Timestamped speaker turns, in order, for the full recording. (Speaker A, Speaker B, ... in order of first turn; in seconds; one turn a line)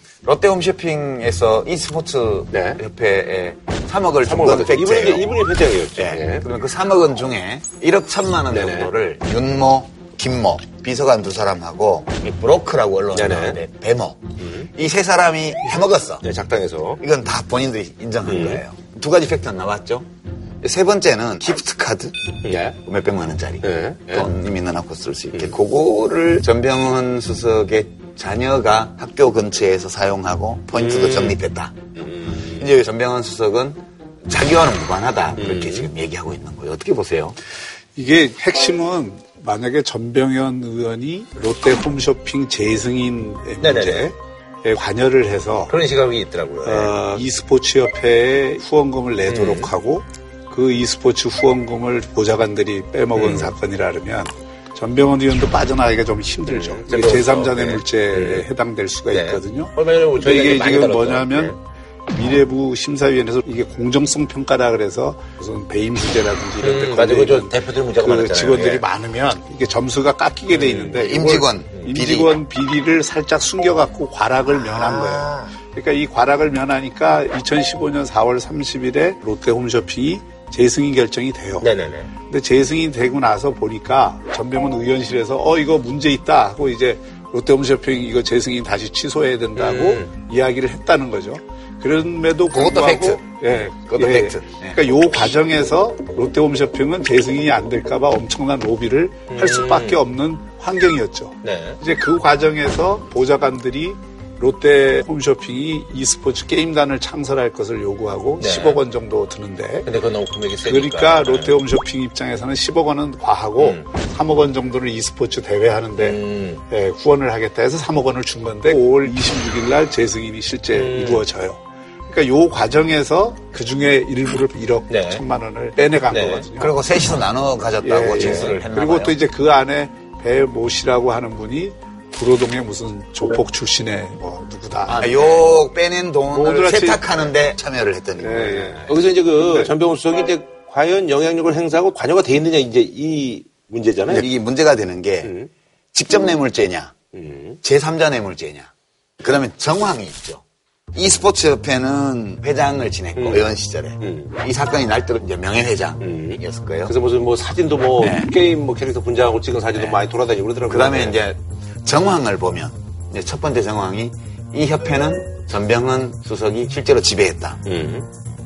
Speaker A: 0.2-5.3
Speaker B: 2.5-2.8
Speaker B: 4.2-6.5
Speaker A: 6.0-16.2
Speaker B: 8.5-8.9
Speaker B: 13.1-13.6
Speaker B: 14.4-14.7
Speaker B: 16.2-17.0
Speaker A: 17.0-20.1
Speaker B: 18.2-18.6
Speaker A: 20.6-22.2
Speaker B: 22.4-22.8
Speaker A: 22.8-31.9
Speaker B: 23.6-24.3
Speaker B: 30.7-31.4
Speaker B: 31.9-32.7
Speaker A: 32.5-37.4
Speaker B: 35.4-35.9
Speaker C: 37.9-45.8
Speaker B: 43.6-44.1
Speaker B: 45.7-47.2
Speaker C: 46.6-61.6
Speaker B: 49.3-49.7
Speaker B: 53.1-53.5
Speaker B: 56.5-58.5
Speaker B: 59.1-61.6
Speaker C: 62.1-81.7
Speaker B: 66.6-68.8
Speaker B: 70.5-71.0
Speaker A: 71.0-72.4
Speaker B: 74.6-75.5
Speaker B: 81.6-82.1
Speaker C: 82.2-109.9
Speaker B: 89.5-90.1
Speaker A: 92.5-94.8
Speaker B: 99.3-100.0
Speaker B: 101.4-101.8
Speaker B: 108.4-108.8
Speaker B: 109.8-111.6
Speaker C: 110.6-126.8
Speaker B: 113.6-113.9
Speaker B: 116.0-116.6
Speaker B: 120.7-121.2
Speaker B: 124.9-125.2
Speaker B: 126.1-126.5
Speaker A: 126.6-129.2
Speaker C: 127.8-135.1
Speaker B: 128.2-128.5
Speaker B: 134.9-135.4
Speaker A: 134.9-138.8
Speaker C: 136.3-137.2
Speaker C: 138.2-139.7
Speaker B: 138.4-144.3
Speaker A: 144.1-145.3
Speaker B: 145.2-145.5
Speaker A: 145.9-146.9
Speaker B: 147.1-147.6
Speaker A: 147.6-150.4
Speaker A: 150.9-156.9
Speaker B: 153.2-153.5
Speaker B: 154.0-154.3
Speaker B: 156.0-161.2
Speaker A: 158.0-158.3
Speaker A: 159.7-160.0
Speaker A: 160.7-167.6
Speaker B: 167.6-168.1